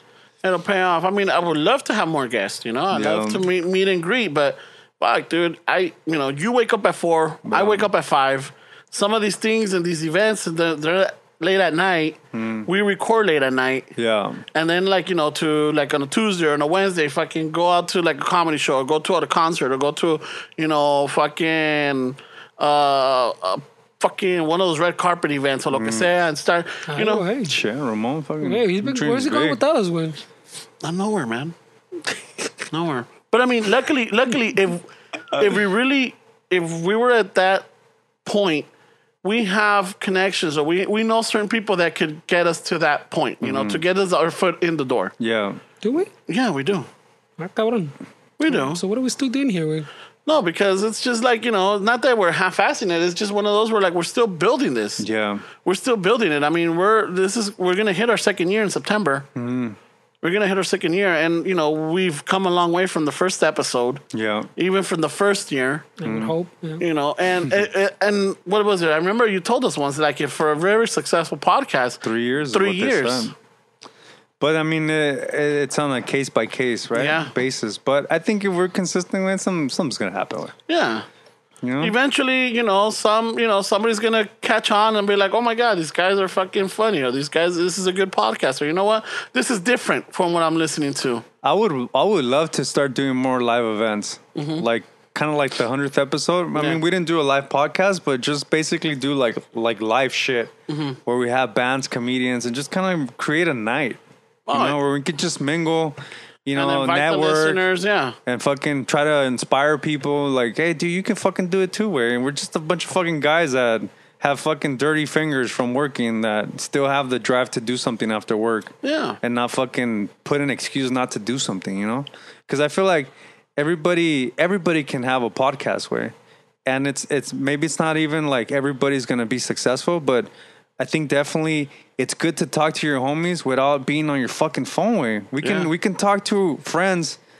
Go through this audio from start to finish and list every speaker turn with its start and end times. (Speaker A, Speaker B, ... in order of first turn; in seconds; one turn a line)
Speaker A: 0.4-13.9
Speaker B: 2.9-3.5
Speaker B: 7.5-7.9
Speaker B: 12.3-12.7
Speaker B: 14.0-14.4
Speaker A: 14.5-27.2
Speaker B: 25.7-26.1
Speaker C: 26.9-27.5
Speaker B: 27.4-29.6
Speaker C: 28.4-30.2
Speaker A: 30.8-31.6
Speaker A: 32.7-37.7
Speaker B: 35.3-35.6
Speaker A: 38.2-38.7
Speaker A: 39.2-45.1
Speaker B: 43.4-43.8
Speaker B: 45.2-45.6
Speaker C: 45.8-46.1
Speaker A: 46.3-46.9
Speaker C: 47.4-47.9
Speaker A: 48.4-48.8
Speaker C: 48.5-49.9
Speaker A: 50.3-55.1
Speaker B: 55.0-55.4
Speaker A: 55.6-59.3
Speaker B: 59.4-59.8
Speaker A: 60.2-64.0
Speaker B: 64.1-64.5
Speaker A: 64.6-65.9
Speaker C: 66.0-66.8
Speaker B: 66.0-66.3
Speaker A: 66.8-73.3
Speaker B: 72.0-73.3
Speaker B: 74.4-80.5
Speaker A: 77.0-77.3
Speaker A: 80.7-81.0
Speaker B: 81.6-82.0
Speaker A: 81.8-91.2
Speaker B: 91.4-100.5
Speaker A: 94.4-94.6
Speaker A: 96.6-96.8
Speaker A: 100.7-101.0
Speaker B: 101.1-104.0
Speaker A: 104.5-104.8
Speaker B: 104.5-107.6
Speaker A: 106.6-108.2
Speaker B: 108.3-126.1
Speaker A: 118.8-119.2
Speaker B: 126.7-137.2
Speaker A: 135.4-135.7